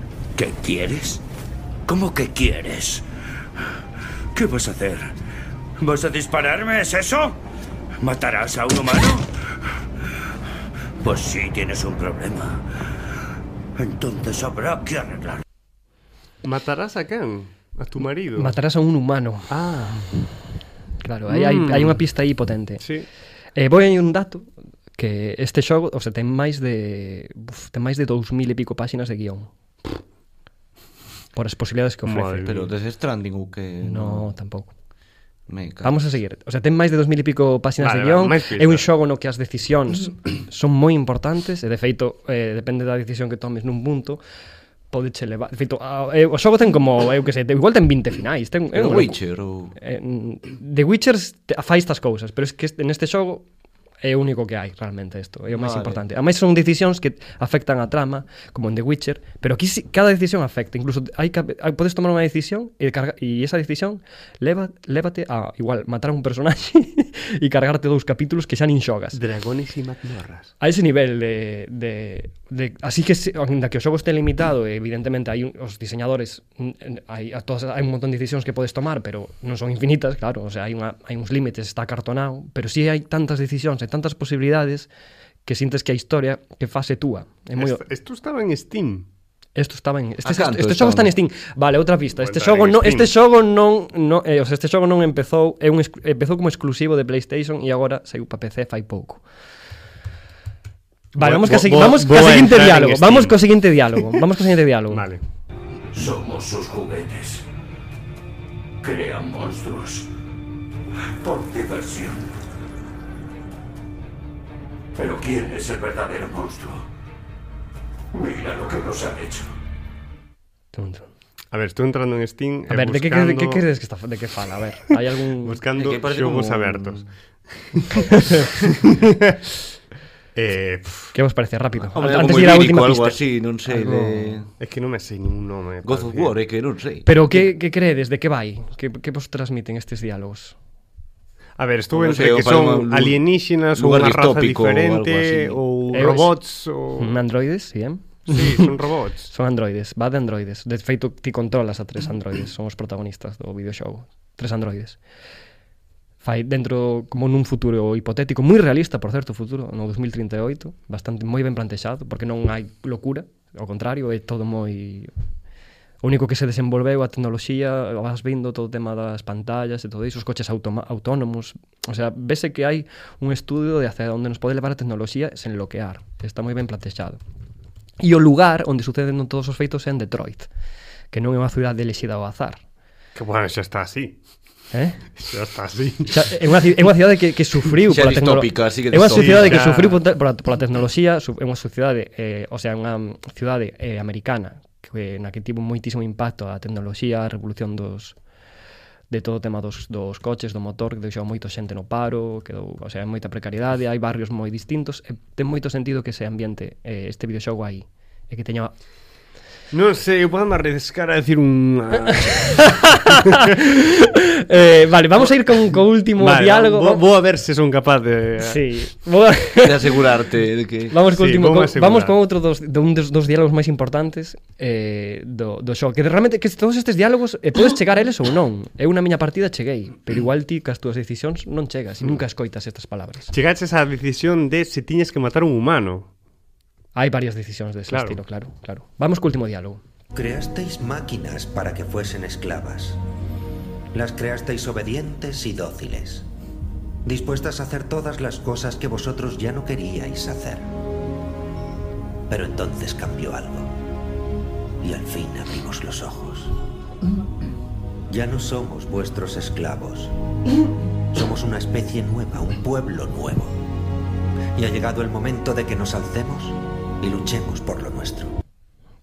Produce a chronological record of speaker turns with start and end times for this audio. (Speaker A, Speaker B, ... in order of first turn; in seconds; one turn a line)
Speaker A: 0.3-1.2
Speaker A: 1.9-3.0
Speaker A: 4.3-5.1
Speaker A: 5.8-7.4
Speaker A: 8.0-9.3
Speaker A: 11.0-12.7
Speaker A: 13.8-15.4
Speaker B: 16.4-18.6
Speaker C: 18.4-19.5
Speaker B: 19.5-20.1
Speaker C: 21.0-22.8
Speaker B: 21.3-22.0
Speaker B: 22.8-23.1
Speaker C: 23.6-29.5
Speaker C: 31.4-32.5
Speaker B: 32.0-32.7
Speaker D: 32.4-34.3
Speaker C: 33.8-34.7
Speaker D: 35.5-36.1
Speaker C: 35.8-44.2
Speaker B: 37.8-38.9
Speaker C: 44.9-49.2
Speaker D: 48.7-49.7
Speaker C: 49.7-53.5
Speaker C: 54.0-69.2
Speaker D: 55.5-56.0
Speaker B: 69.1-70.5
Speaker C: 70.6-84.9
Speaker C: 85.5-87.8
Speaker B: 87.6-89.0
Speaker C: 89.5-99.2
Speaker D: 90.2-91.1
Speaker B: 92.2-93.1
Speaker C: 101.1-105.0
Speaker B: 101.2-104.2
Speaker B: 104.9-105.2
Speaker A: 105.9-107.4
Speaker A: 108.8-110.1
Speaker A: 111.2-112.3
Speaker A: 114.9-116.9
Speaker A: 118.1-119.5
Speaker C: 120.7-121.1
Speaker B: 121.5-123.6
Speaker C: 122.7-125.6
Speaker B: 125.4-127.0
Speaker D: 125.8-127.1
Speaker B: 127.7-129.4
Speaker C: 128.1-128.4
Speaker B: 130.3-131.1
Speaker C: 131.1-134.4
Speaker D: 131.9-134.5
Speaker B: 134.6-136.3
Speaker D: 135.8-137.4
Speaker C: 137.1-140.5
Speaker B: 141.6-147.2
Speaker D: 141.9-143.2
Speaker D: 143.7-145.6
Speaker C: 145.9-146.3
Speaker C: 146.9-148.7
Speaker B: 148.3-149.3
Speaker C: 149.3-155.0
Speaker C: 156.2-165.1
Speaker C: 166.0-177.2
Speaker C: 178.0-180.5
Speaker C: 181.1-182.6
Speaker B: 183.1-184.2
Speaker C: 184.7-185.0
Speaker B: 185.1-186.2
Speaker C: 186.1-198.2
Speaker D: 187.9-189.7
Speaker B: 189.1-190.0
Speaker C: 199.1-208.7
Speaker B: 209.7-213.4
Speaker C: 212.4-217.0
Speaker B: 215.5-218.6
Speaker C: 218.4-220.0
Speaker D: 219.6-220.9
Speaker C: 220.9-233.3
Speaker B: 221.1-222.2
Speaker B: 233.3-236.1
Speaker C: 236.9-239.8
Speaker B: 237.9-238.2
Speaker E: 240.1-243.0
Speaker E: 243.9-246.3
Speaker E: 247.0-250.7
Speaker E: 252.3-253.7
Speaker E: 254.8-256.6
Speaker E: 258.1-260.1
Speaker E: 261.1-263.6
Speaker E: 264.6-268.3